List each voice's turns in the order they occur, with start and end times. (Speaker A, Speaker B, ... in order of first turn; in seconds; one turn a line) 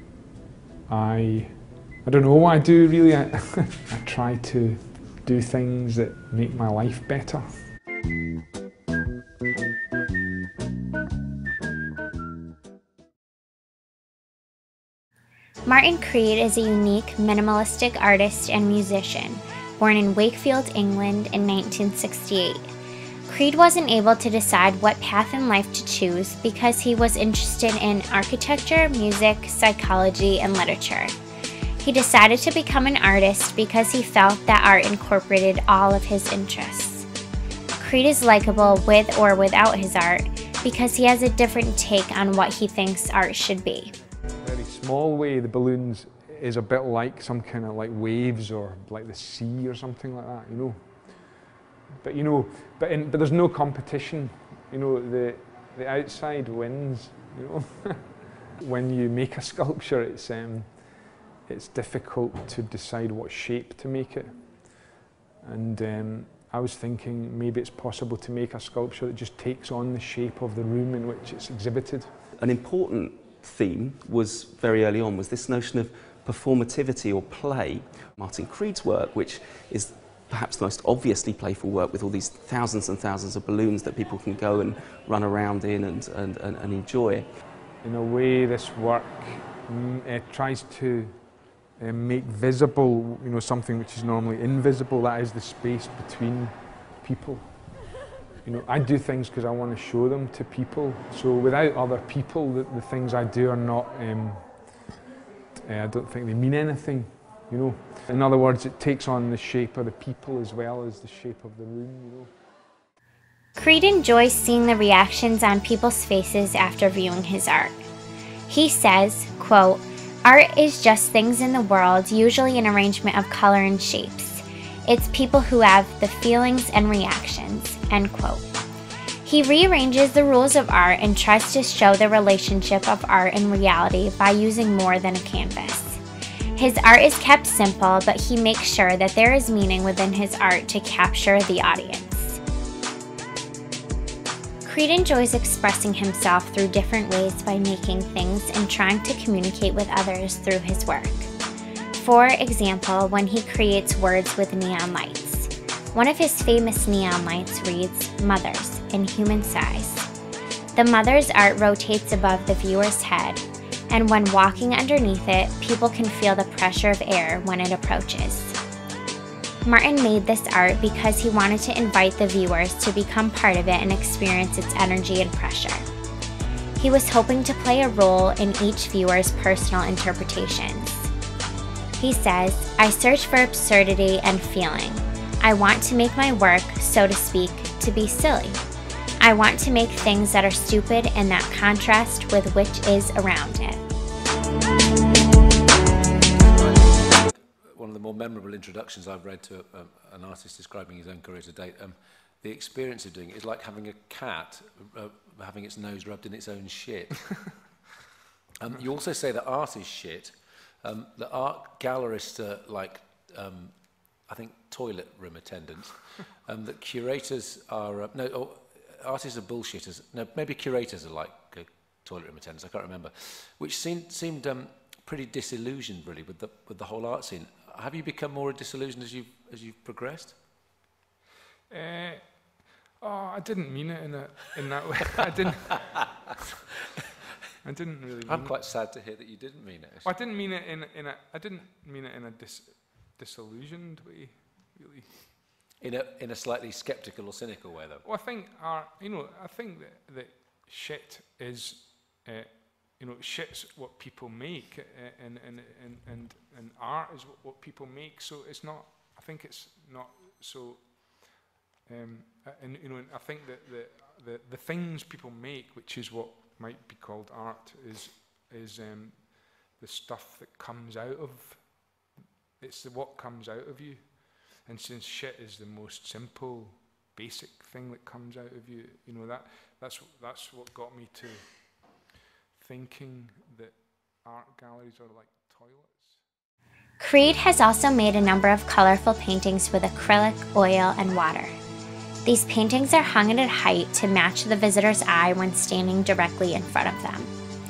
Speaker A: 0.9-7.7
Speaker B: 15.7-22.7
Speaker B: 23.3-31.1
Speaker B: 31.8-37.1
Speaker B: 37.8-43.9
Speaker A: 44.4-64.8
Speaker A: 65.4-72.2
Speaker C: 72.4-87.3
Speaker A: 87.8-97.8
Speaker A: 98.4-104.9
Speaker A: 105.5-112.4
Speaker B: 113.5-117.9
Speaker B: 118.5-128.5
Speaker B: 129.2-136.0
Speaker B: 136.6-142.4
Speaker B: 144.6-151.3
Speaker B: 151.9-160.1
Speaker B: 160.7-168.6
Speaker B: 169.6-175.8
Speaker B: 176.8-181.1
Speaker B: 182.0-188.6
Speaker B: 189.2-193.8
Speaker D: 196.3-207.9
Speaker D: 208.6-230.4
Speaker A: 231.7-236.4
Speaker A: 237.6-238.6
Speaker D: 238.2-240.1
Speaker A: 240.0-245.3
Speaker D: 245.8-248.0
Speaker A: 248.0-286.2
Speaker B: 287.0-291.6
Speaker B: 292.2-297.3